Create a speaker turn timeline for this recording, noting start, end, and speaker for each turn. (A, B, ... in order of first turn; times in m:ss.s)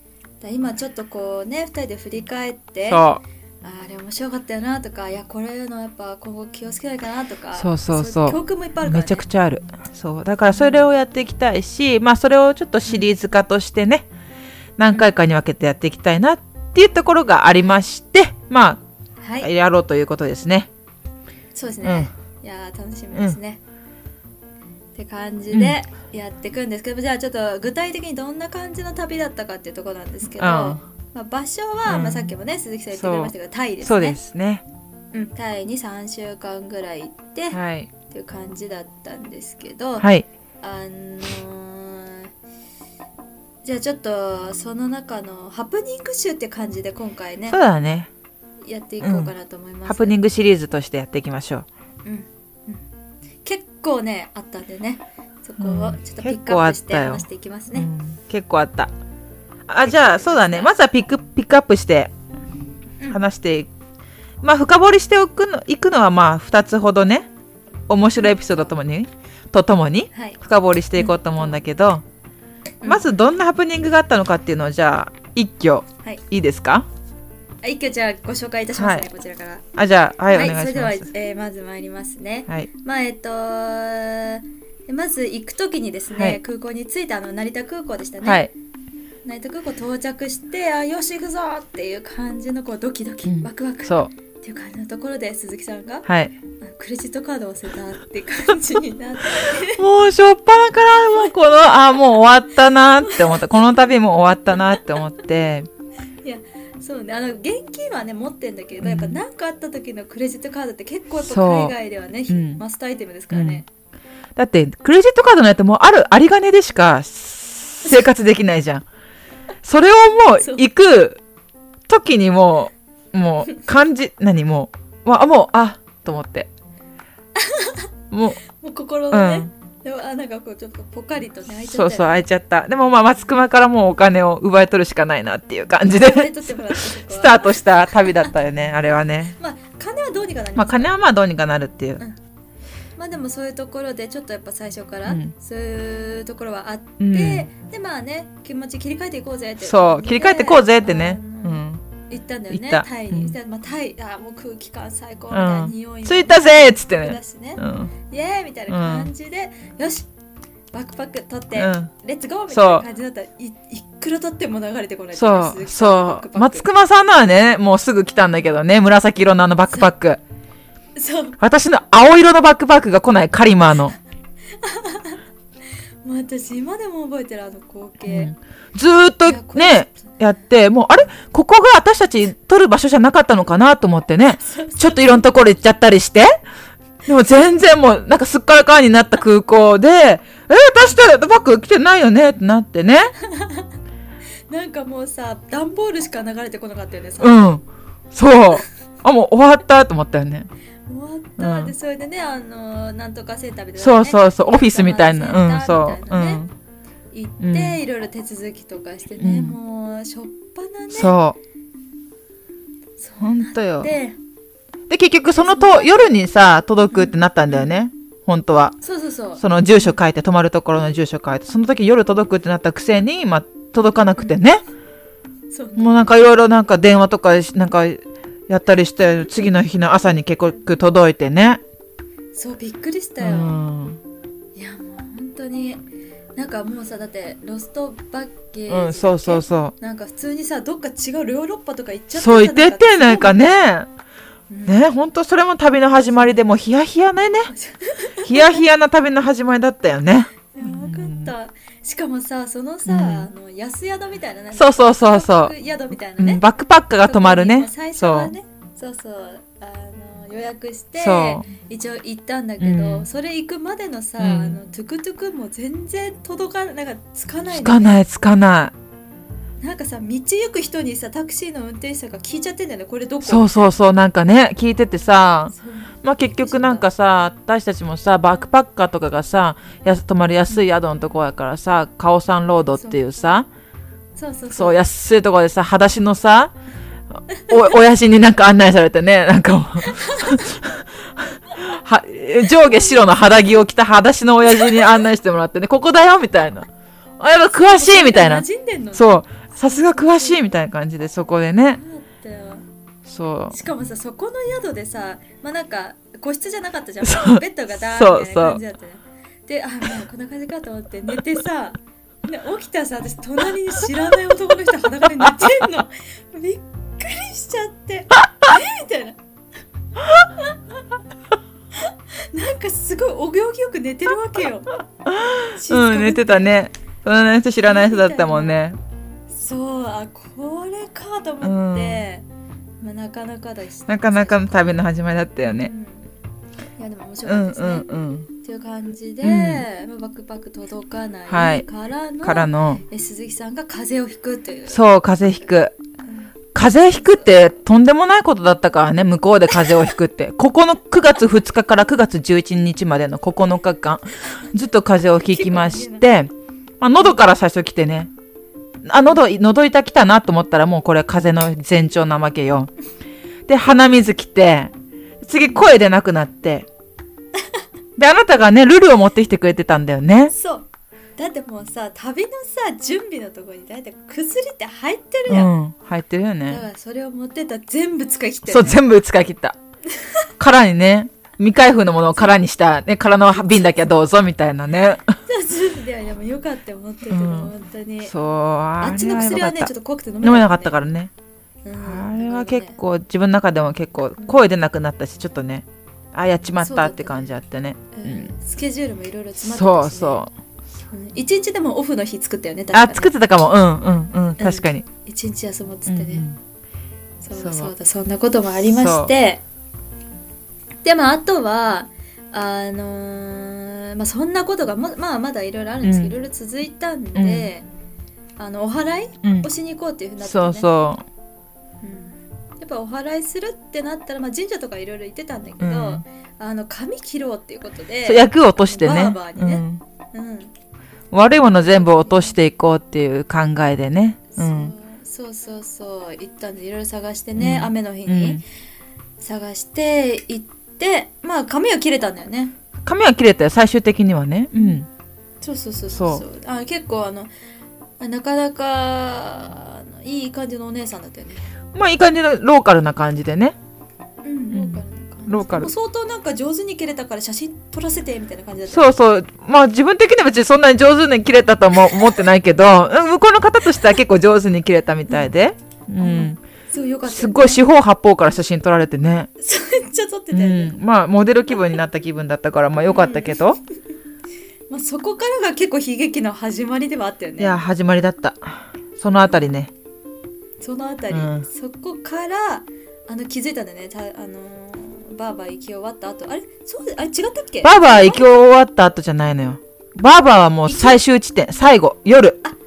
0:00.4-0:03.1 A
0:02.9-0:03.2 B
0:03.6-0:09.2 A
0:07.5-0:14.0 B
0:10.5-0:10.8 A
0:14.8-0:18.8 B
0:19.2-0:19.5 A
0:19.4-0:20.7 B
0:21.5-0:23.6 A
0:21.8-0:22.1 B
0:24.9-0:34.2 A
0:25.5-0:25.8 B
0:30.4-0:30.8 B
0:31.8-0:32.3 B
0:32.9-0:34.6 B
0:35.1-0:40.1 A
0:37.5-0:37.9 B
0:40.0-0:40.3 B
0:40.6-0:42.3 A
0:43.6-0:47.6 A
0:47.5-0:48.1 B
0:48.6-0:50.2 A
0:49.0-0:49.3 B
0:49.8-0:51.6 B
0:52.0-0:52.8 A
0:53.4-0:57.9 A
0:55.6-0:58.9 B
0:59.7-1:02.1 B
0:59.8-1:00.7 A
1:03.1-1:03.7 B
1:04.4-1:07.3 B
1:07.9-1:12.0 B
1:10.1-1:10.4 A
1:11.0-1:11.5 A
1:12.8-1:16.8 B
1:17.6-1:19.6 A
1:18.7-1:19.1 B
1:19.7-1:21.1 B
1:20.3-1:28.5 A
1:28.2-1:28.5 B
1:29.2-1:36.0 A
1:33.2-1:34.1 B
1:36.0-1:36.3 B
1:36.6-1:39.8 A
1:39.3-1:45.7 B
1:43.0-1:43.6 A
1:44.6-1:44.8 A
1:46.2-1:53.6 A
1:48.8-1:49.2 B
1:51.2-1:51.7 B
1:52.3-1:52.6 B
1:53.3-1:53.6 B
1:54.4-1:58.8 B
1:59.6-2:01.2 B
2:01.9-2:06.5 B
2:07.4-2:07.9 A
2:08.1-2:08.4 B
2:08.5-2:12.2 A
2:09.1-2:09.5 B
2:11.6-2:19.4 B
2:15.9-2:17.6 A
2:19.4-2:20.9 A
2:20.6-2:22.0 B
2:23.0-2:40.1 A
2:25.1-2:25.3 B
2:27.0-2:27.5 B
2:29.6-2:31.8 B
2:32.5-2:33.4 B
2:35.3-2:37.9 B
2:38.7-2:39.1 B
2:40.7-2:46.7 A
2:41.5-2:41.9 B
2:42.5-2:42.8 B
2:45.1-2:50.2 B
2:51.0-2:51.4 A
2:51.4-2:54.0 B
2:54.6-2:55.2 A
2:56.0-2:58.3 A
2:58.0-3:06.3 B
2:59.2-3:00.2 A
3:04.4-3:05.2 A
3:07.1-3:13.1 B
3:13.2-3:13.7 A
3:14.5-3:17.6 A
3:17.2-3:20.5 B
3:20.9-3:26.4 A
3:21.4-3:21.7 B
3:23.8-3:26.5 B
3:27.1-3:31.1 A
3:27.4-3:27.8 B
3:29.2-3:29.6 B
3:30.9-3:31.4 B
3:33.0-3:34.2 A
3:33.2-3:33.9 B
3:34.9-3:38.8 B
3:35.4-3:36.2 A
3:36.9-3:37.8 A
3:38.8-3:40.0 A
3:39.4-3:44.6 B
3:45.5-3:46.2 A
3:45.8-3:51.6 B
3:52.3-3:53.6 A
3:53.2-3:54.0 B
3:54.5-3:55.8 A
3:56.4-4:03.5 A
3:58.7-3:59.7 B
4:02.1-4:03.9 B
4:04.5-4:04.8 A
4:04.6-4:07.5 B
4:06.1-4:06.4 A
4:07.5-4:08.6 A
4:08.2-4:11.3 B
4:10.5-4:16.4 A
4:12.8-4:13.3 B
4:14.5-4:15.5 B
4:16.2-4:18.3 B
4:17.0-4:28.0 A
4:21.0-4:21.4 B
4:22.6-4:23.1 B
4:24.2-4:24.6 B
4:27.5-4:28.7 B
4:29.6-4:33.5 A
4:33.2-4:43.5 B
4:35.5-4:36.9 A
4:44.2-4:44.8 A
4:44.5-4:46.5 B
4:47.3-4:50.9 B
4:49.8-4:50.4 A
4:51.5-4:56.7 B
4:57.2-5:01.8 B
4:57.5-5:00.5 A
5:01.7-5:02.6 A
5:03.1-5:03.6 B
5:03.5-5:19.2 A
5:07.0-5:08.6 B
5:20.2-5:20.5 A
5:21.8-5:24.7 A
5:25.1-5:28.8 B
5:25.5-5:26.5 A
5:27.6-5:28.6 A
5:29.3-5:32.2 A
5:31.4-5:32.0 B
5:32.8-5:34.8 A
5:33.9-5:35.7 B
5:35.5-5:36.0 A
5:36.8-5:44.8 A
5:37.2-5:38.3 B
5:39.2-5:39.6 B
5:41.3-5:41.6 B
5:42.2-5:42.8 B
5:44.7-5:45.7 B
5:46.0-5:46.3 A
5:46.5-5:58.1 B
5:47.0-5:47.3 A
5:55.2-5:56.0 A
5:57.0-5:57.2 A
5:58.8-6:02.7 B
6:03.5-6:04.7 B
6:05.2-6:06.7 B
6:08.0-6:10.3 B
6:10.3-6:15.5 A
6:15.3-6:16.6 B
6:16.5-6:18.8 A
6:18.5-6:19.6 B
6:19.9-6:20.3 A
6:20.4-6:25.0 B
6:25.3-6:28.1 A
6:27.1-6:27.5 B
6:28.0-6:29.7 B
6:28.8-6:30.8 A
6:30.2-6:31.1 B
6:31.6-6:32.8 A
6:31.8-6:38.3 B
6:36.6-6:37.3 A
6:37.9-6:40.2 A
6:39.4-6:40.3 B
6:40.9-6:43.1 A
6:42.7-6:44.8 B
6:44.4-6:46.2 A
6:45.9-6:46.4 B
6:47.2-6:49.4 A
6:47.3-6:47.7 B
6:48.7-6:49.1 B
6:50.8-6:57.6 A
6:55.8-6:56.2 B
6:57.2-6:57.5 B
6:58.4-7:00.7 A
6:59.2-6:59.5 B
7:00.2-7:01.0 B
7:01.8-7:10.5 A
7:05.6-7:06.0 B
7:08.0-7:09.8 B
7:11.1-7:14.7 B
7:11.7-7:12.4 A
7:14.3-7:18.4 A
7:17.4-7:18.4 B
7:19.2-7:22.5 A
7:22.8-7:24.9 B
7:24.5-7:24.8 A
7:25.4-7:27.3 A
7:25.9-7:26.2 B
7:28.0-7:31.4 A
7:31.7-7:33.6 B
7:34.2-7:38.9 A
7:34.5-7:35.7 B
7:38.7-7:46.4 B
7:46.0-7:47.6 A
7:47.0-7:49.3 B
7:49.4-7:50.8 A
7:50.3-7:53.6 B
7:52.9-7:53.5 A
7:54.7-7:57.6 A
7:57.4-7:59.7 B
8:00.6-8:08.3 A
8:01.1-8:01.4 B
8:07.6-8:12.4 B
8:10.6-8:11.0 A